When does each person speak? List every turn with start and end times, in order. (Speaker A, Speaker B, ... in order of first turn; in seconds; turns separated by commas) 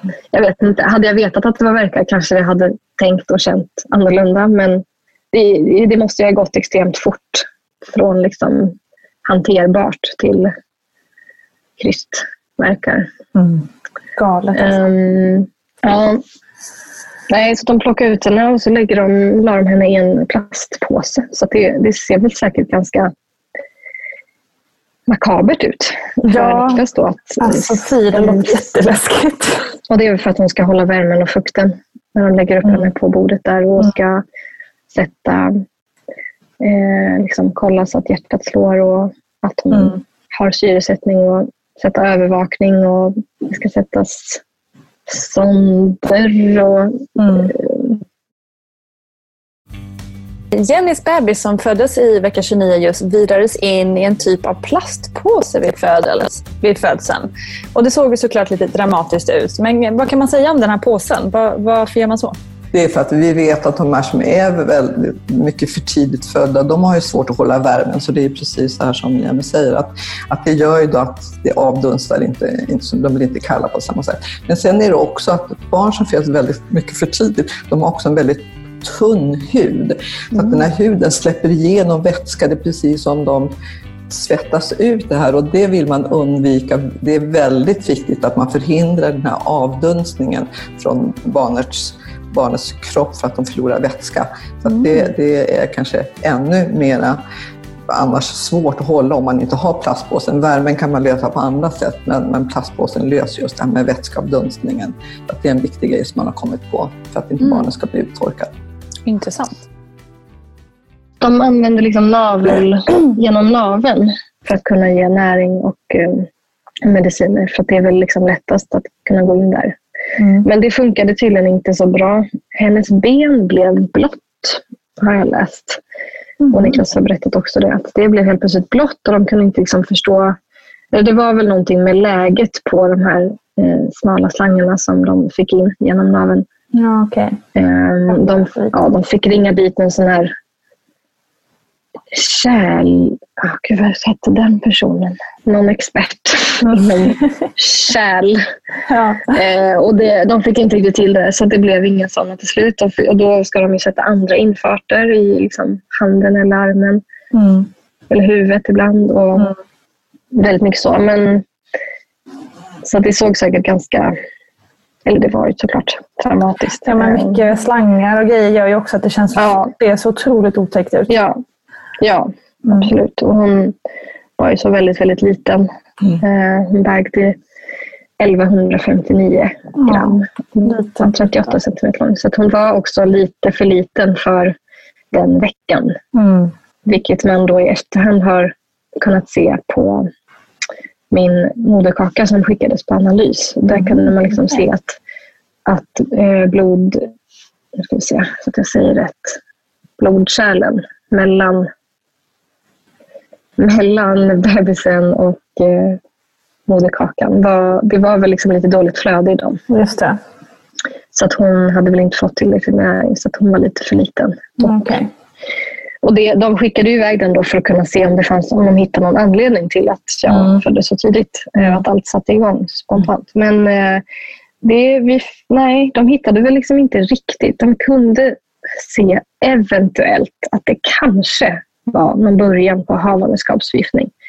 Speaker A: 0.3-8.8, Speaker A: 9.3-10.5, Speaker A: 11.8-13.1, Speaker B: 13.3-14.8, Speaker A: 14.6-16.2, Speaker A: 17.3-23.1, Speaker A: 25.1-28.6, Speaker B: 26.3-26.8, Speaker B: 27.4-29.6, Speaker A: 29.9-34.2, Speaker B: 32.6-32.9, Speaker A: 34.9-35.6, Speaker A: 36.6-44.4, Speaker B: 39.7-40.0, Speaker A: 45.1-48.0, Speaker B: 47.2-47.5, Speaker B: 50.5-62.4, Speaker C: 62.7-83.5, Speaker B: 80.4-80.7, Speaker C: 84.1-97.2, Speaker B: 94.7-95.0, Speaker C: 97.9-108.5, Speaker B: 109.1-109.5, Speaker A: 111.2-116.3, Speaker A: 116.8-119.8, Speaker B: 120.2-120.5, Speaker A: 120.5-125.8, Speaker B: 126.4-126.8, Speaker A: 126.5-130.4, Speaker A: 130.9-136.4, Speaker B: 136.7-137.4, Speaker A: 137.6-140.3, Speaker B: 138.1-138.7, Speaker A: 142.1-148.4, Speaker B: 146.6-147.5, Speaker B: 148.9-149.4, Speaker A: 149.3-157.0, Speaker B: 157.3-157.7, Speaker A: 158.1-159.5, Speaker A: 160.3-161.4, Speaker A: 162.8-164.1, Speaker A: 165.1-167.4, Speaker B: 166.8-171.1, Speaker A: 169.3-169.7, Speaker A: 171.1-171.4, Speaker A: 172.0-173.7, Speaker B: 172.7-172.9, Speaker A: 174.4-175.7, Speaker A: 176.2-177.4, Speaker A: 178.2-184.6, Speaker B: 179.8-181.5, Speaker A: 185.1-186.0, Speaker B: 186.1-186.5, Speaker A: 186.9-190.1, Speaker A: 191.1-194.9, Speaker B: 193.7-194.6, Speaker A: 195.7-197.0, Speaker A: 197.8-199.4, Speaker A: 200.0-201.7, Speaker A: 203.6-206.0, Speaker A: 206.7-209.6, Speaker B: 209.7-210.2, Speaker A: 211.1-214.9, Speaker B: 214.6-215.1, Speaker A: 216.0-224.0, Speaker B: 220.3-220.6, Speaker A: 224.6-234.1